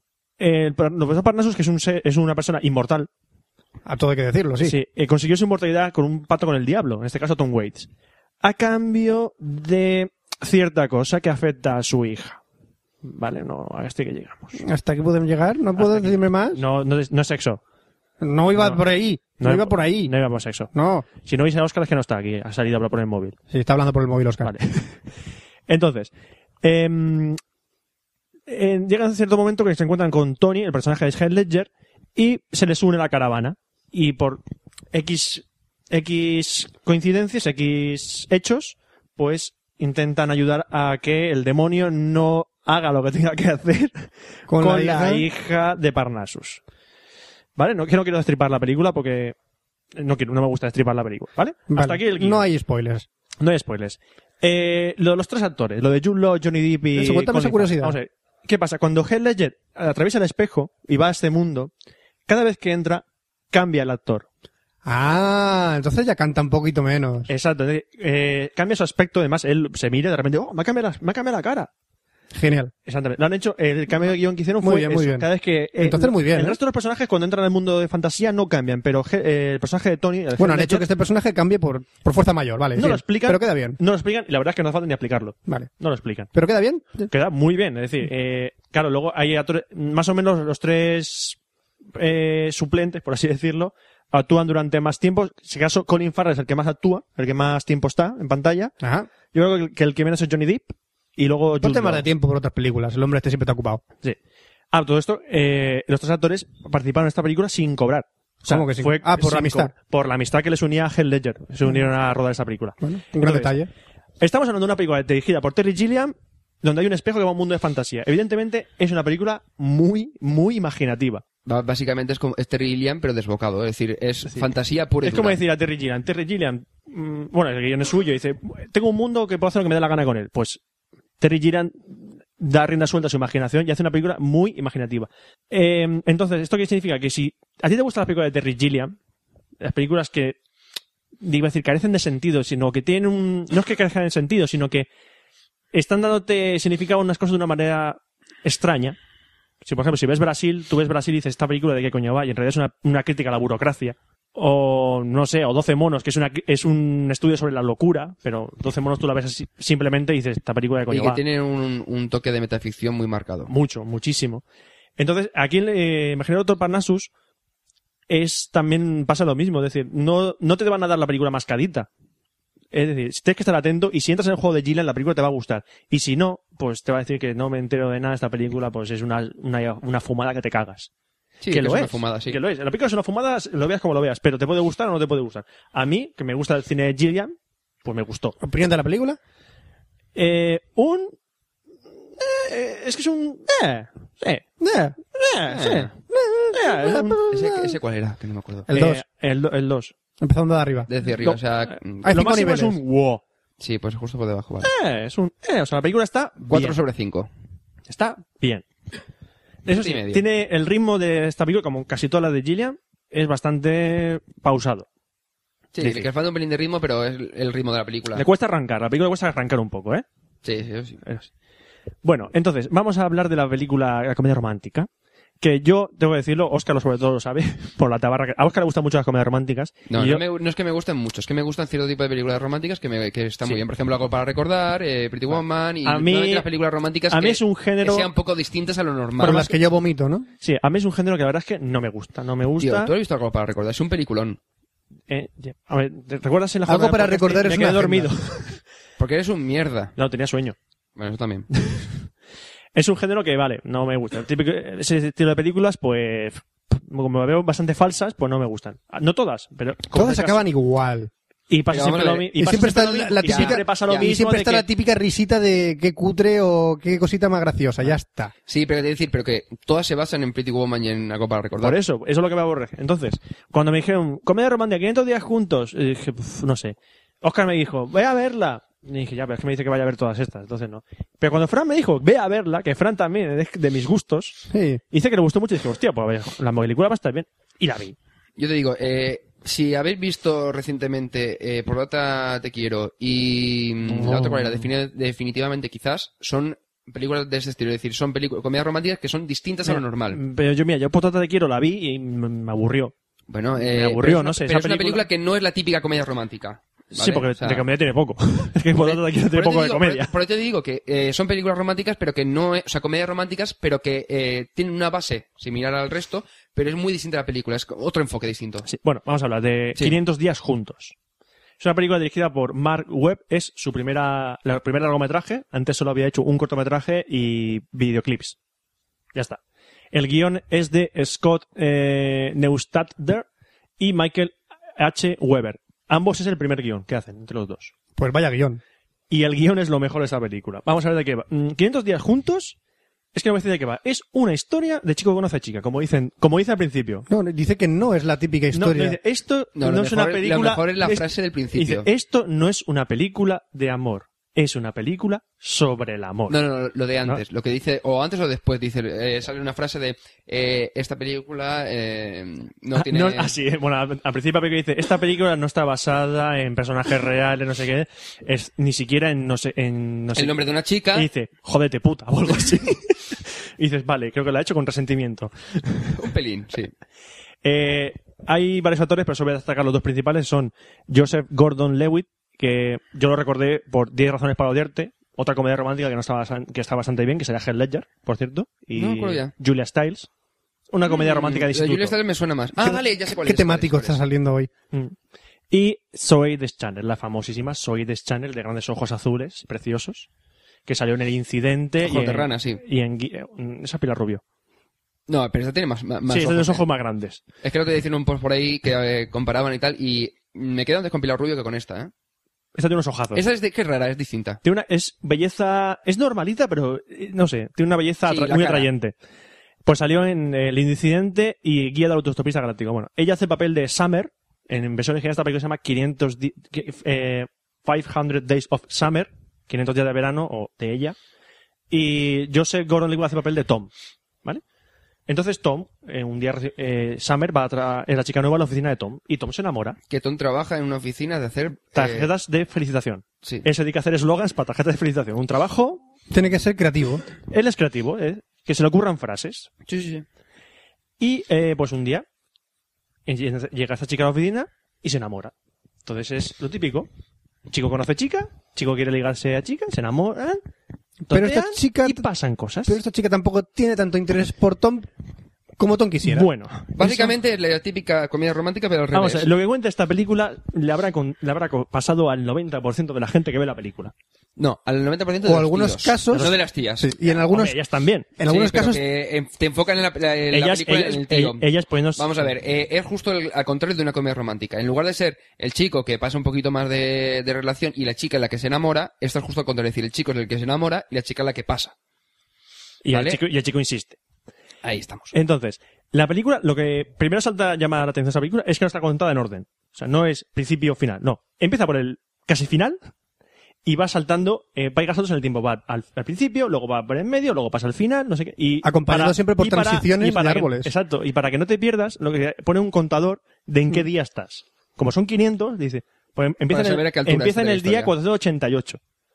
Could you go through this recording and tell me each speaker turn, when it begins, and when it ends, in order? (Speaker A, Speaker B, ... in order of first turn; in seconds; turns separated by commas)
Speaker A: 0.4-3.1, Speaker B: 3.9-4.8, Speaker A: 4.6-7.9, Speaker A: 8.4-12.4, Speaker A: 13.0-14.6, Speaker B: 14.6-16.6, Speaker A: 15.8-17.6, Speaker B: 18.2-20.1, Speaker A: 18.6-18.8, Speaker A: 19.4-20.7, Speaker B: 20.7-21.1, Speaker A: 21.2-23.4, Speaker B: 23.5-24.5, Speaker A: 24.4-25.0, Speaker A: 25.7-26.1, Speaker A: 26.6-27.4, Speaker A: 28.5-34.4, Speaker A: 34.9-46.6, Speaker B: 44.5-45.2, Speaker A: 47.6-49.3, Speaker A: 49.9-52.5, Speaker B: 51.7-53.1, Speaker A: 53.4-61.7, Speaker B: 56.9-58.0, Speaker A: 62.3-64.2, Speaker B: 64.8-67.3, Speaker A: 67.3-71.7, Speaker B: 72.3-72.7, Speaker A: 72.8-80.9, Speaker B: 74.6-76.6, Speaker B: 80.4-83.8, Speaker A: 82.8-86.3, Speaker B: 86.3-87.1, Speaker A: 87.1-91.4, Speaker A: 91.9-98.7, Speaker B: 98.8-99.1, Speaker A: 99.3-102.0, Speaker B: 101.6-103.8, Speaker A: 104.7-113.5, Speaker B: 108.4-109.7, Speaker B: 112.8-113.7, Speaker A: 114.2-121.2, Speaker C: 121.5-125.4, Speaker A: 125.0-130.6, Speaker A: 131.2-138.9, Speaker A: 139.6-140.4, Speaker A: 141.2-144.9, Speaker A: 145.7-149.0, Speaker A: 149.6-161.2, Speaker C: 160.9-163.5, Speaker A: 163.5-164.4, Speaker A: 165.0-167.1, Speaker A: 168.1-171.9, Speaker A: 172.7-180.9, Speaker C: 181.4-182.4, Speaker A: 181.5-188.4, Speaker B: 188.4-189.2, Speaker A: 190.1-191.1, Speaker A: 192.2-194.4, Speaker B: 194.6-195.0, Speaker A: 195.1-195.9, Speaker C: 195.5-195.9, Speaker B: 196.1-197.7, Speaker A: 196.5-197.2, Speaker C: 197.3-198.7, Speaker B: 198.7-199.0, Speaker A: 198.7-199.9, Speaker B: 200.2-200.9, Speaker C: 200.9-202.1, Speaker A: 201.2-203.2, Speaker B: 202.0-202.8, Speaker C: 203.6-204.7, Speaker A: 204.6-206.8, Speaker C: 206.5-207.3, Speaker A: 207.9-208.6, Speaker A: 209.7-214.9, Speaker C: 209.7-210.2, Speaker C: 215.7-218.2, Speaker A: 215.8-216.1, Speaker A: 218.1-220.0, Speaker C: 220.4-221.0, Speaker A: 221.0-221.3, Speaker A: 222.0-224.9, Speaker A: 225.4-230.2, Speaker C: 229.9-239.5, Speaker A: 235.8-236.5, Speaker A: 237.1-238.1, Speaker B: 239.2-240.3, Speaker A: 240.4-242.9, Speaker C: 242.6-244.4, Speaker A: 245.1-248.6, Speaker B: 246.7-248.1, Speaker C: 249.0-249.9, Speaker A: 249.9-250.6, Speaker C: 251.0-251.5, Speaker A: 251.6-251.9, Speaker A: 252.7-260.4, Speaker B: 259.9-261.1, Speaker A: 261.5-264.6, Speaker C: 261.7-262.7, Speaker B: 262.4-268.3, Speaker C: 263.2-264.1, Speaker C: 268.5-271.8, Speaker A: 271.6-287.9, Speaker B: 284.5-284.8, Speaker C: 288.4-300.2, Speaker B: 293.9-294.3, Speaker A: 299.7-302.9, Speaker C: 303.3-307.6, Speaker A: 303.6-305.0, Speaker A: 306.9-310.1, Speaker C: 308.8-318.7, Speaker A: 318.6-320.9, Speaker A: 321.6-328.4, Speaker A: 329.1-329.4, Speaker A: 329.9-333.2, Speaker A: 333.8-337.7, Speaker B: 338.0-338.6, Speaker A: 339.1-342.6, Speaker A: 343.1-347.0, Speaker B: 347.1-349.0, Speaker A: 348.5-356.4, Speaker C: 349.6-351.9, Speaker C: 356.3-363.3, Speaker A: 362.7-370.4, Speaker C: 370.1-371.1, Speaker A: 370.9-375.9, Speaker C: 375.9-376.7, Speaker A: 377.4-390.1, Speaker C: 388.7-389.3, Speaker A: 390.7-391.9, Speaker C: 390.8-394.0, Speaker B: 392.6-394.5, Speaker A: 395.5-400.1, Speaker A: 400.7-404.2, Speaker C: 401.8-402.6, Speaker C: 405.1-406.6, Speaker A: 406.1-407.2, Speaker C: 407.4-411.9, Speaker A: 412.5-413.2, Speaker C: 413.1-414.4, Speaker A: 414.4-418.9, Speaker C: 418.1-418.7, Speaker A: 419.6-430.9, Speaker A: 431.7-433.7, Speaker A: 435.1-439.8, Speaker C: 439.9-442.1, Speaker A: 441.7-445.8, Speaker B: 446.1-447.0, Speaker A: 447.3-449.5, Speaker C: 449.7-450.0, Speaker A: 451.0-452.1, Speaker A: 453.1-455.3, Speaker A: 455.8-456.9, Speaker A: 457.5-460.4, Speaker A: 461.1-462.8, Speaker B: 461.1-462.0, Speaker B: 462.6-464.9, Speaker B: 465.6-466.3, Speaker A: 466.0-467.1, Speaker C: 466.8-469.3, Speaker A: 468.9-473.9, Speaker C: 474.4-476.9, Speaker B: 475.2-477.6, Speaker A: 477.0-478.2, Speaker B: 478.2-478.8, Speaker C: 478.2-491.7, Speaker A: 480.3-482.1, Speaker A: 492.8-494.0, Speaker C: 492.9-493.2, Speaker C: 494.6-495.1, Speaker A: 495.1-502.8, Speaker A: 503.6-518.8, Speaker B: 508.6-510.7, Speaker C: 516.5-517.9